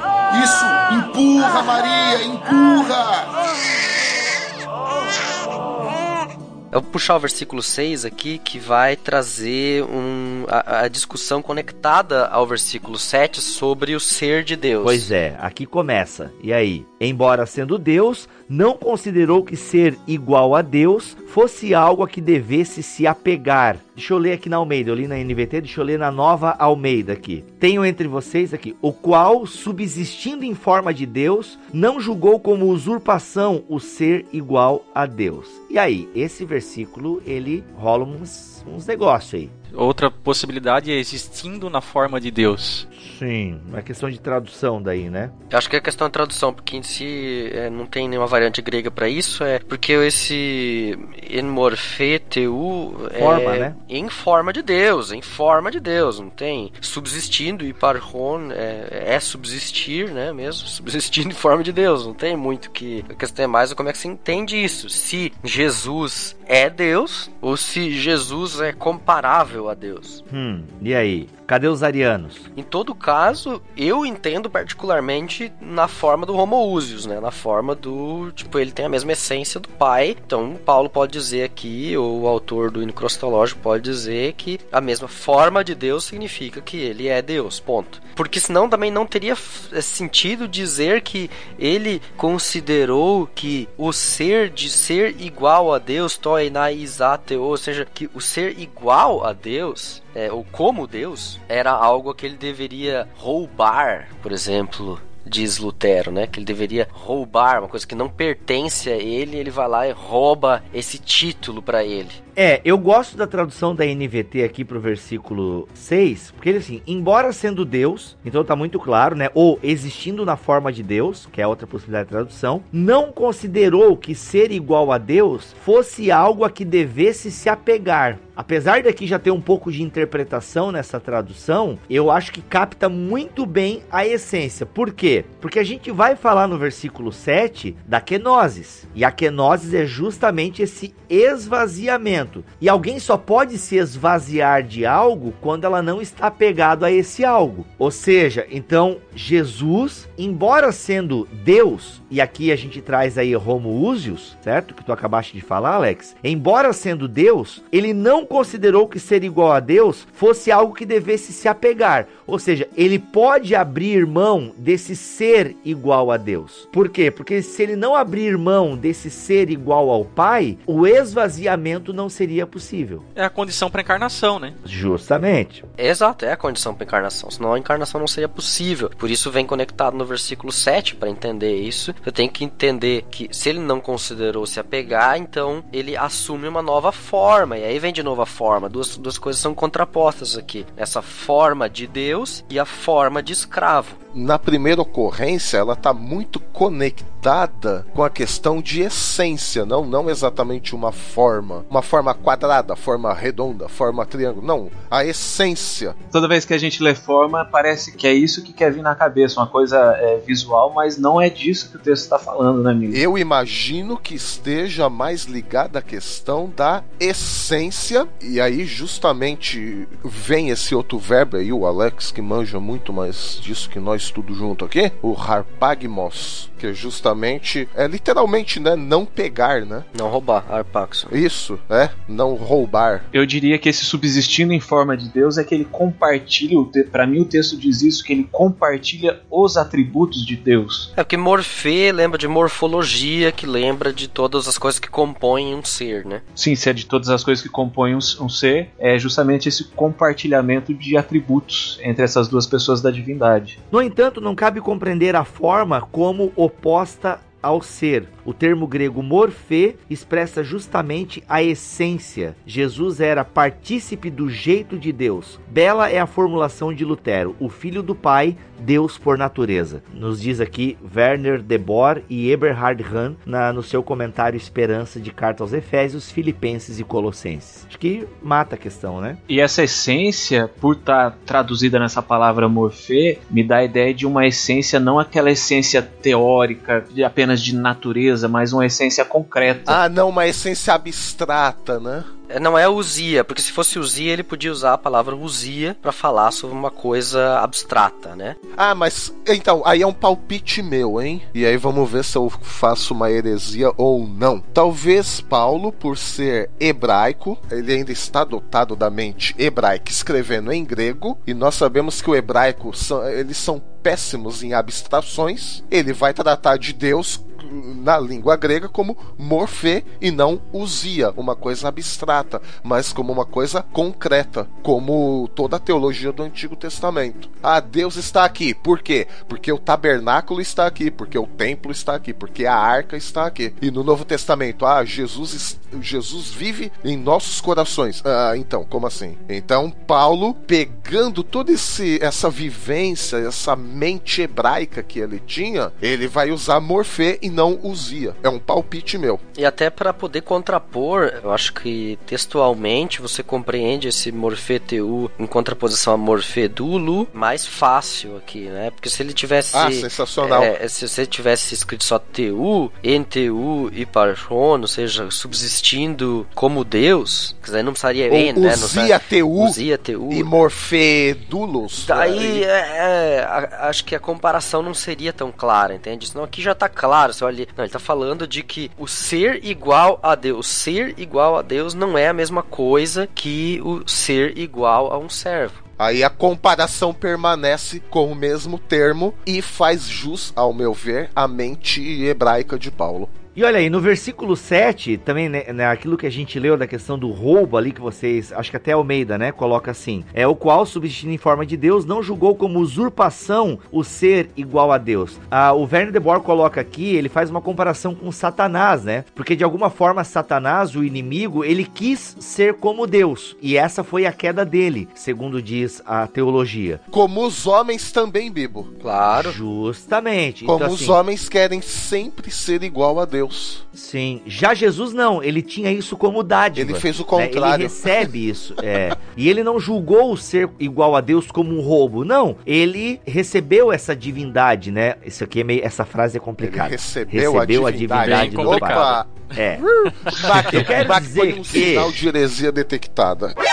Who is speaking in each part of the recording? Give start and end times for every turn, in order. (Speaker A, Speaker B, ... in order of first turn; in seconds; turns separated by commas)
Speaker A: 0.3-3.4, Speaker B: 6.7-15.1, Speaker C: 14.8-39.5, Speaker D: 39.7-42.9, Speaker C: 43.0-45.3, Speaker B: 45.5-70.2, Speaker C: 53.2-53.8, Speaker C: 70.3-72.5, Speaker B: 72.6-112.2, Speaker C: 112.4-173.0, Speaker D: 173.2-174.6, Speaker C: 174.7-175.6, Speaker B: 175.8-194.0, Speaker E: 194.1-206.0, Speaker F: 206.1-213.0, Speaker E: 212.9-229.9, Speaker B: 229.9-231.1, Speaker E: 231.1-233.1, Speaker F: 233.1-240.9, Speaker B: 241.0-246.2, Speaker F: 246.4-253.6, Speaker C: 253.7-279.2, Speaker F: 279.3-289.8, Speaker E: 289.7-292.1, Speaker B: 292.3-298.4, Speaker E: 298.6-349.2, Speaker B: 349.4-370.3, Speaker E: 359.5-360.5, Speaker E: 368.1-372.4, Speaker B: 371.8-385.6, Speaker E: 385.8-393.1, Speaker C: 393.4-416.8, Speaker E: 416.9-418.7, Speaker B: 418.8-419.4, Speaker C: 419.1-421.0, Speaker E: 420.4-423.6, Speaker C: 423.7-439.6, Speaker E: 426.6-428.1, Speaker E: 436.4-443.4, Speaker D: 437.9-439.0, Speaker D: 440.1-440.4, Speaker C: 440.2-442.0